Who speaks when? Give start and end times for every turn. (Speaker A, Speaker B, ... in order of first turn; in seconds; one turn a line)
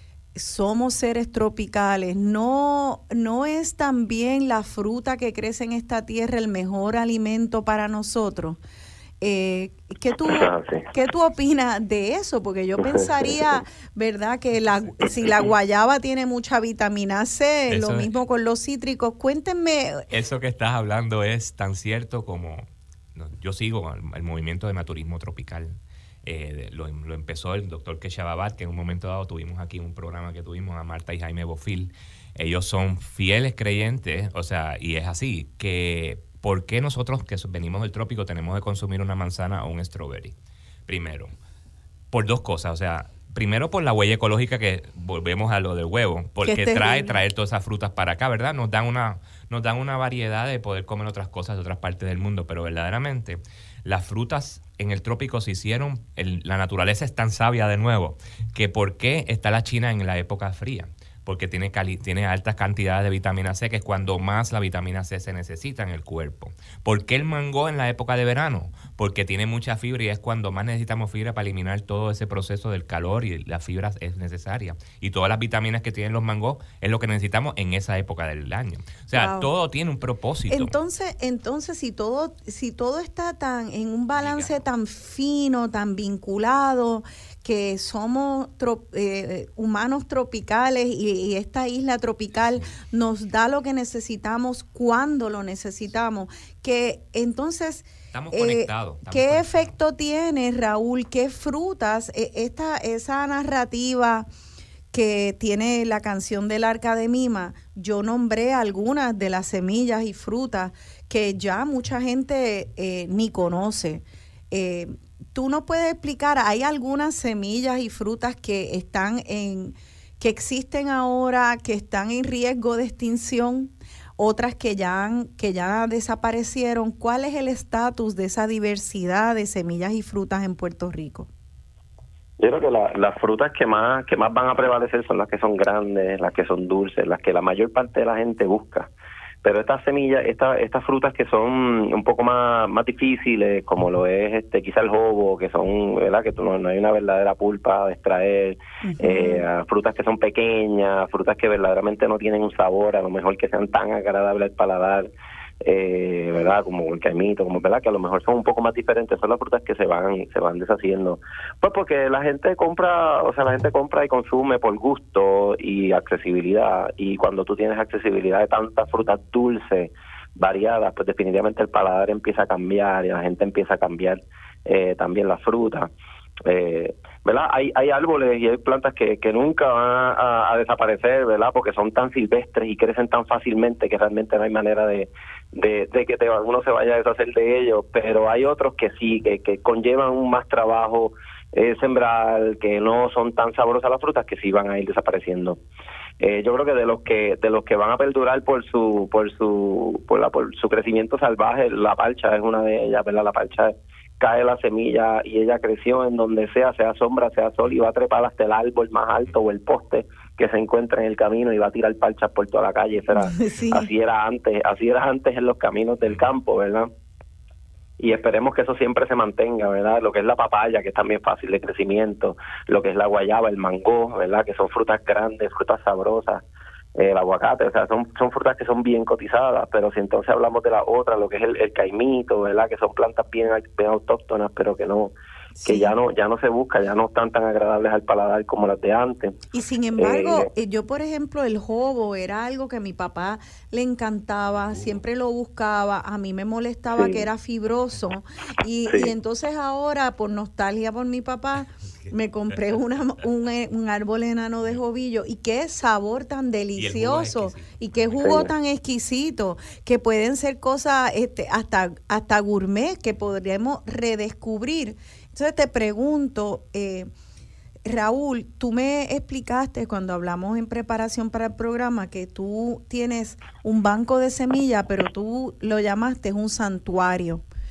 Speaker A: 0.3-8.6
Speaker A: 9.2-20.1
Speaker B: 10.3-10.9
Speaker B: 12.8-13.5
Speaker C: 17.7-18.1
Speaker C: 20.1-40.4
Speaker C: 40.9-41.3
Speaker C: 42.1-80.8
Speaker A: 46.5-47.2
Speaker A: 79.2-79.5
Speaker A: 80.5-104.3
Speaker C: 84.1-84.6
Speaker C: 98.1-99.7
Speaker A: 104.9-131.3
Speaker B: 132.4-138.9
Speaker B: 139.4-155.1
Speaker A: 148.8-149.4
Speaker B: 155.6-175.9
Speaker B: 176.5-195.6
Speaker B: 196.2-216.9
Speaker A: 213.1-213.9
Speaker B: 218.0-226.4
Speaker B: 226.9-235.1
Speaker A: 235.6-235.9
Speaker B: 235.7-239.4
Speaker A: 239.5-267.1
Speaker B: 240.0-240.5
Speaker C: 244.7-245.0
Speaker B: 246.9-247.3
Speaker C: 256.8-258.2
Speaker B: 258.2-258.5
Speaker A: 267.9-277.4